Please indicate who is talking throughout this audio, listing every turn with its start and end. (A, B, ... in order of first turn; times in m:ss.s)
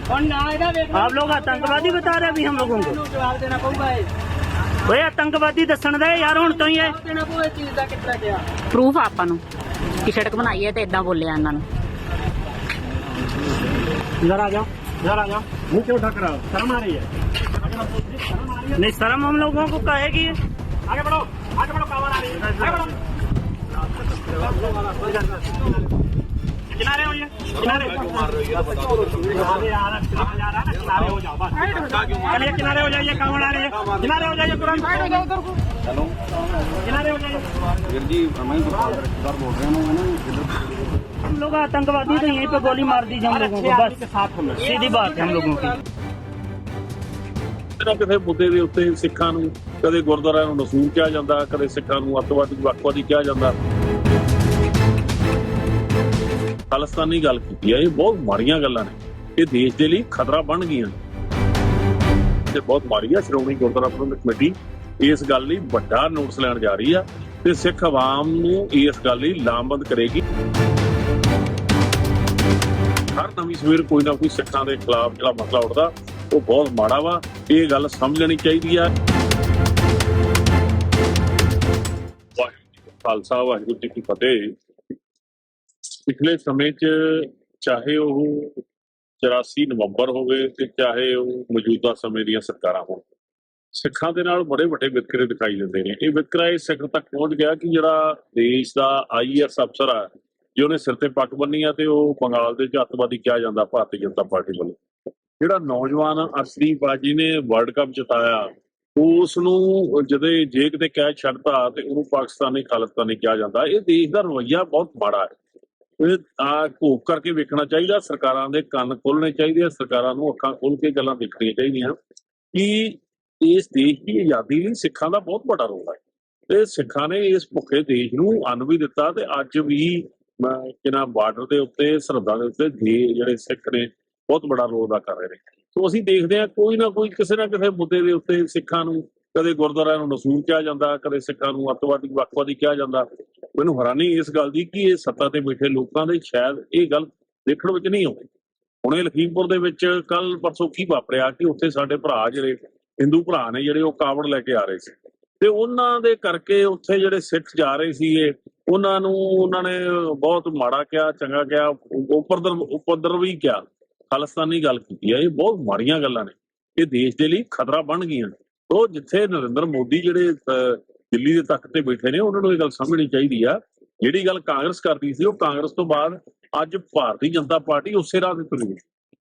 0:00.1-0:04.1 A
0:00.9-0:03.0 B
0:04.8-0:06.9 B
0:06.2-0:08.5 A
0:08.7-0:09.4 C
0:10.0-0:11.6 C
0:14.2-0:18.9 D
0:18.8-0:20.4 B
0:20.9-0:22.9 D
0:24.3-0:25.6 D
0:26.7-0:35.3 D
0:36.8-0:37.5 D
0:37.8-0:40.9 E
0:41.2-0:44.0 B
0:42.3-0:43.2 A
0:43.2-0:44.7 D
0:44.6-0:45.8 B
0:44.8-0:45.8 A
0:47.8-0:53.6 F
0:56.7-1:01.0 F
1:02.5-1:10.2 F
1:13.1-1:18.9 F
1:22.4-1:24.5 F
1:26.0-1:28.6 F
1:29.2-1:33.0 F
1:33.7-1:44.8 F
1:45.4-1:55.3 F
1:56.0-2:02.0 F
2:02.5-2:06.0 F
2:06.5-2:28.2 F
2:28.8-2:58.8 F